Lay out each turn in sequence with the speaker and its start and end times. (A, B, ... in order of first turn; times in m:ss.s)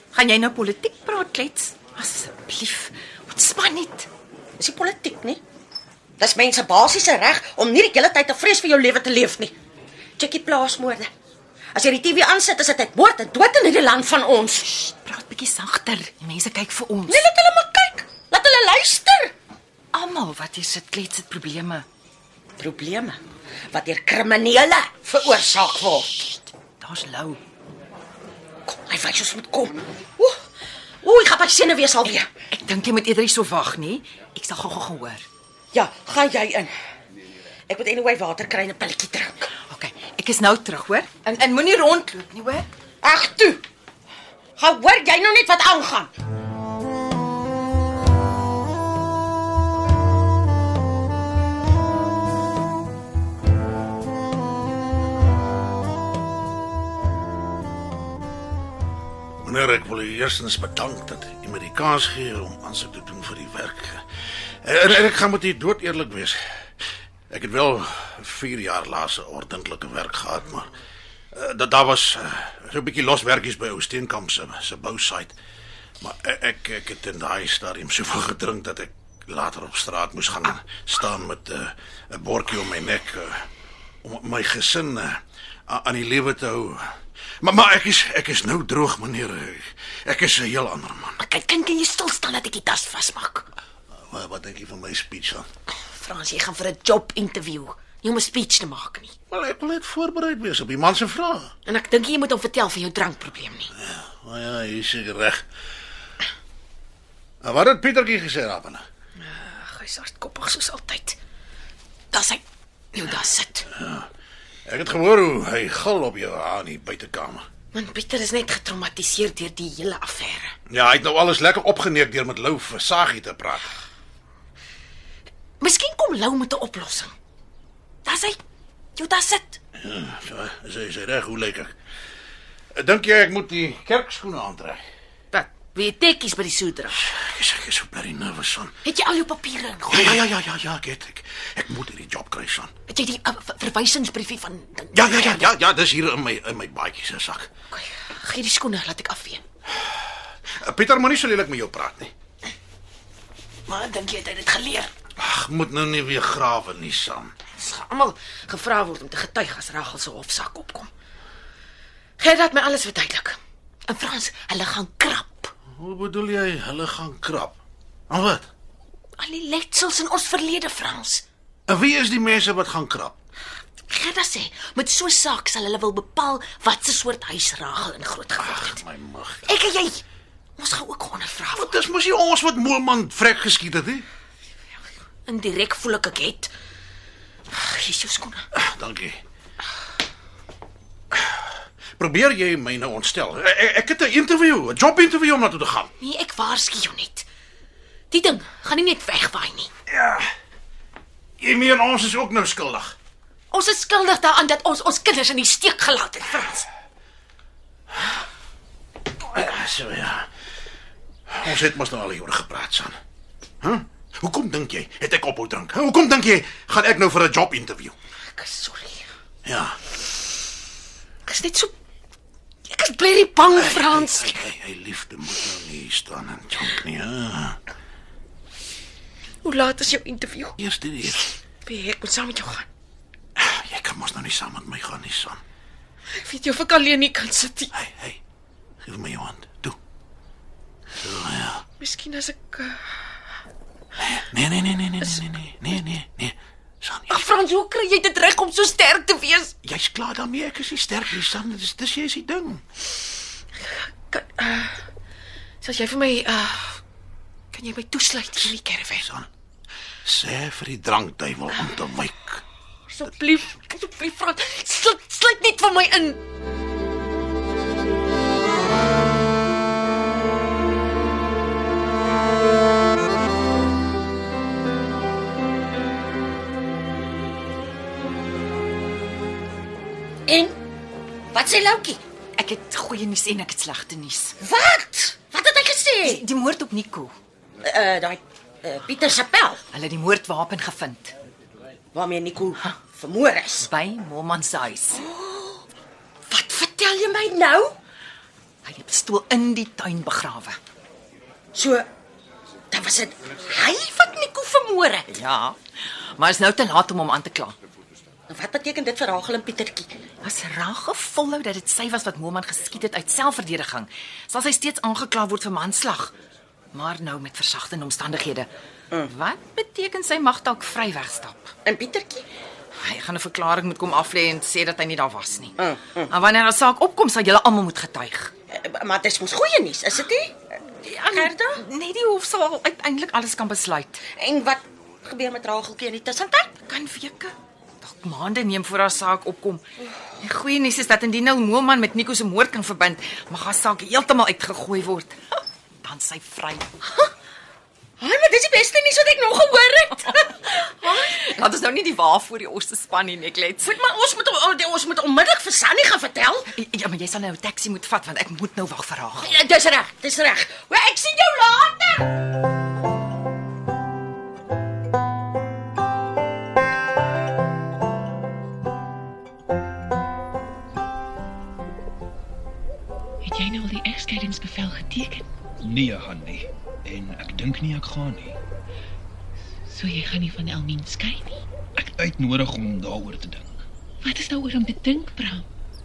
0:00.1-0:04.1 A
0:04.6-0:05.4 B
0:06.2-0:09.5 B
0:10.2-0:11.1 B
0:11.7-0:14.7 B
0:14.8-0:17.2 A
0:17.1-0:19.3 B
0:19.9-0:21.8 A
0:22.6-0:23.2 B
0:23.7-0:26.3 B
0:26.7-0:27.4 A
0:28.7-0:30.4 B
0:31.0-0:32.3 B
0:32.5-0:35.3 A
0:35.7-0:36.7 B
0:37.7-0:39.5 B
0:39.7-0:42.7 A
0:43.0-0:43.6 B
0:44.6-0:46.1 B
0:59.4-1:04.0 C
1:04.6-1:06.4 C
1:07.3-1:10.7 C
1:11.3-1:15.3 C
1:16.0-1:23.5 C
1:24.0-1:26.8 C
1:27.4-1:31.2 C
1:31.2-1:33.5 D
1:34.1-1:35.5 C
1:35.7-1:39.1 D
1:39.3-1:41.5 C
1:41.7-1:43.7 D
1:43.8-1:45.4 C
1:47.4-1:48.8 C
1:49.2-1:51.2 D
1:52.1-1:52.4 D
1:52.9-1:53.7 D
1:53.7-1:54.1 C
1:54.7-1:57.5 C
1:57.7-2:00.5 D
2:00.7-2:03.7 C
2:05.6-2:07.1 D
2:08.0-2:08.4 D
2:09.0-2:09.6 D
2:09.8-2:11.7 C
2:12.8-2:14.8 C
2:15.3-2:17.0 D
2:17.0-2:18.7 C
2:18.8-2:20.2 D
2:19.9-2:22.7 C
2:22.9-2:25.5 D
2:24.9-2:27.5 C
2:27.7-2:29.4 D
2:30.5-2:32.1 C
2:33.7-2:34.9 D
2:35.2-2:37.3 C
2:37.6-2:40.9 D
2:42.2-2:45.5 D
2:45.8-2:47.6 C
2:48.1-2:48.5 C
2:49.2-2:51.2 D
2:51.7-2:53.2 C
2:53.9-2:58.8 D
2:58.4-2:59.5 C
2:59.4-3:00.0 D
3:00.6-3:01.8 D
3:01.5-3:04.0 C
3:05.3-3:06.5 D
3:07.5-3:08.5 D
3:08.5-3:09.2 C
3:11.1-3:11.5 C
3:12.0-3:15.9 C
3:16.0-3:17.3 D
3:18.1-3:19.7 D
3:19.9-3:20.3 C
3:21.4-3:22.9 C
3:23.5-3:26.7 D
3:29.3-3:30.3 C
3:31.3-3:33.0 C
3:33.6-3:38.0 C
3:38.3-3:39.1 D
3:39.4-3:39.8 C
3:41.3-3:41.7 D
3:42.7-3:44.4 D
3:43.5-3:47.6 C
3:49.4-3:52.7 D
3:50.6-3:51.2 C
3:53.4-3:55.4 C
3:56.2-3:57.7 D
3:57.7-3:58.2 C
3:58.8-3:59.8 C
4:01.0-4:01.6 C
4:01.8-4:02.9 D
4:04.0-4:07.2 C
4:07.1-4:09.5 D
4:09.6-4:12.6 C
4:13.6-4:14.8 D
4:15.6-4:16.8 D
4:17.5-4:19.0 D
4:19.0-4:19.3 C
4:20.0-4:22.4 C
4:22.9-4:26.2 D
4:40.3-4:40.6 B
4:41.3-4:42.0 B
4:42.4-4:44.4 A
4:44.4-4:46.2 B
4:46.0-4:47.2 A
4:47.6-4:49.6 B
4:49.7-4:51.1 A
4:51.9-4:53.7 B
4:53.6-4:55.0 A
4:54.9-4:55.6 B
4:56.3-4:57.8 B
4:58.6-5:00.6 A
5:01.5-5:01.9 B
5:02.7-5:05.1 B
5:05.1-5:05.6 A
5:06.2-5:07.6 A
5:08.3-5:09.9 B
5:10.2-5:16.1 A
5:16.7-5:18.5 A
5:19.0-5:21.5 A
5:21.6-5:22.2 B
5:22.8-5:28.3 A
5:25.6-5:26.1 B
5:28.5-5:30.4 B
5:30.8-5:34.0 A
5:31.1-5:31.6 B
5:34.1-5:36.5 B
5:36.6-5:39.7 A
5:40.2-5:45.2 A
5:45.8-5:46.7 A
5:48.0-5:51.2 B
5:50.1-5:53.7 A
5:53.6-5:56.5 B
5:56.5-5:59.4 A
5:59.2-6:02.1 B
6:13.2-6:15.2 E
6:13.6-6:14.6 D
6:15.6-6:18.3 F
6:19.7-6:21.4 E
6:22.0-6:23.5 F
6:24.0-6:25.4 E